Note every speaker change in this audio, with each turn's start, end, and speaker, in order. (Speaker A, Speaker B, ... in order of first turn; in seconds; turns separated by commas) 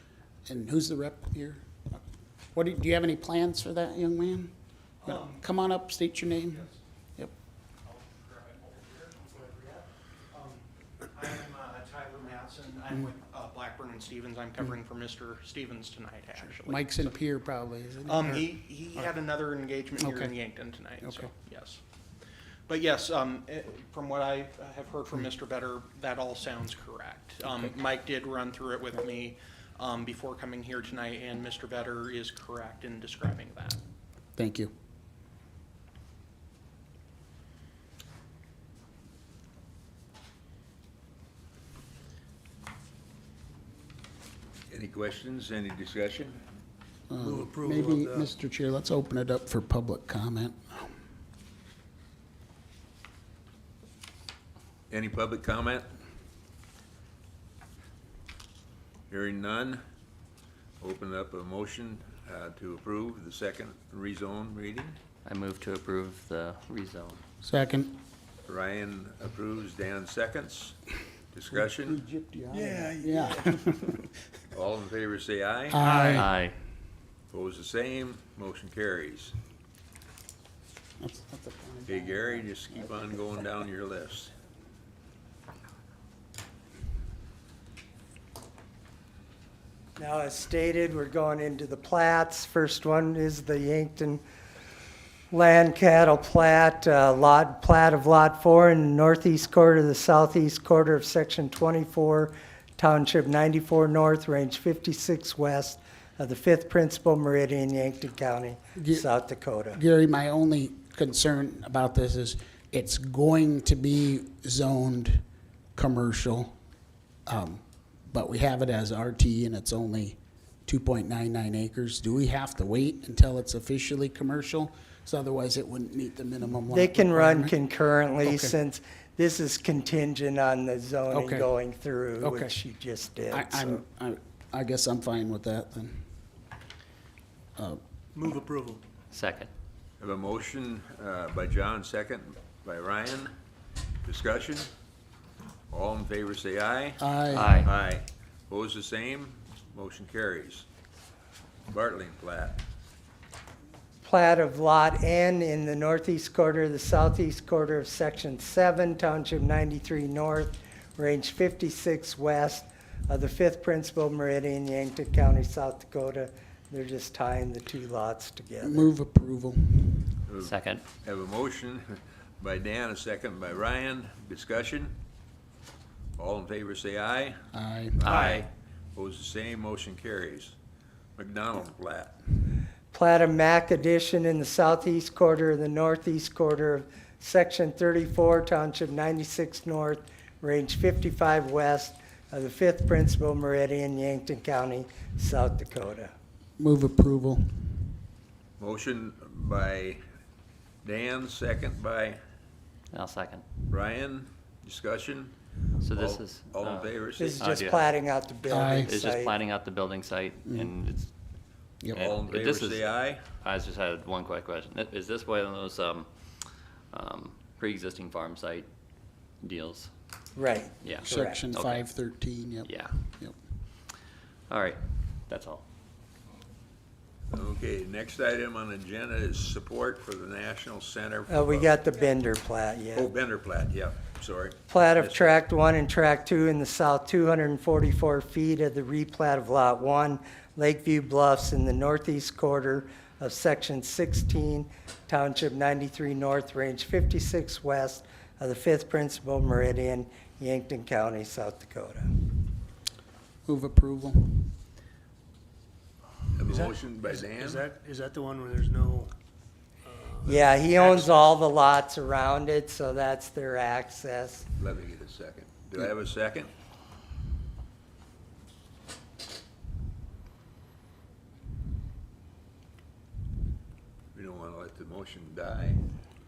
Speaker A: 0.5-2.0, Speaker A: 2.5-4.5, Speaker A: 5.0-7.3, Speaker B: 5.1-5.3, Speaker B: 7.8-17.1, Speaker A: 16.4-19.1, Speaker B: 18.0-21.8, Speaker A: 20.0-20.3, Speaker A: 21.0-21.3, Speaker B: 22.7-33.8, Speaker A: 27.4-27.7, Speaker A: 34.4-34.7, Speaker C: 44.7-46.4, Speaker A: 47.1-50.9, Speaker D: 47.2-48.3, Speaker C: 54.9-55.9, Speaker C: 59.1-59.8, Speaker C: 60.8-65.0, Speaker E: 65.2-67.2, Speaker A: 67.4-68.0, Speaker C: 68.5-70.8, Speaker C: 71.3-72.0, Speaker A: 71.5-74.1, Speaker D: 72.6-72.9, Speaker C: 74.5-75.9, Speaker A: 75.7-76.3, Speaker E: 75.8-76.5, Speaker C: 77.3-79.3, Speaker A: 81.0-83.3, Speaker C: 81.8-84.3, Speaker F: 90.0-94.2, Speaker F: 95.3-109.8, Speaker A: 108.8-109.1, Speaker A: 109.7-115.2, Speaker A: 115.7-116.6, Speaker A: 117.2-127.5, Speaker F: 126.7-133.8, Speaker A: 128.2-128.5, Speaker A: 131.1-131.5, Speaker A: 132.2-132.5, Speaker A: 133.3-136.1, Speaker D: 138.1-138.8, Speaker E: 139.1-139.5, Speaker C: 140.0-143.3, Speaker C: 144.0-144.7, Speaker C: 145.7-150.7, Speaker A: 147.0-147.7, Speaker E: 147.3-147.7, Speaker C: 151.7-152.6, Speaker F: 154.0-168.9, Speaker A: 168.6-170.2, Speaker C: 170.3-174.9, Speaker E: 170.4-170.8, Speaker C: 176.2-177.4, Speaker A: 177.5-178.1, Speaker C: 178.0-180.6, Speaker E: 178.0-178.4, Speaker C: 181.2-182.2, Speaker F: 182.9-196.1, Speaker A: 196.6-197.9, Speaker C: 198.6-200.0, Speaker C: 200.8-202.2, Speaker E: 202.9-203.4, Speaker C: 203.7-205.3, Speaker E: 205.8-207.9, Speaker C: 205.9-207.4, Speaker F: 207.2-209.4, Speaker A: 208.5-208.9, Speaker E: 208.8-211.1, Speaker A: 210.4-210.7, Speaker C: 211.9-213.2, Speaker E: 211.9-216.1, Speaker E: 216.9-218.7, Speaker E: 219.4-219.9, Speaker F: 220.3-221.4, Speaker E: 220.8-221.9, Speaker A: 220.9-223.4, Speaker E: 222.6-223.0, Speaker E: 224.5-225.6, Speaker C: 227.3-231.8, Speaker F: 231.3-233.1, Speaker C: 232.9-235.4, Speaker F: 234.7-252.1, Speaker A: 253.4-254.6, Speaker C: 256.4-257.7, Speaker D: 256.5-259.1, Speaker D: 259.8-261.1, Speaker F: 260.2-264.5, Speaker C: 264.6-266.5, Speaker C: 274.1-275.8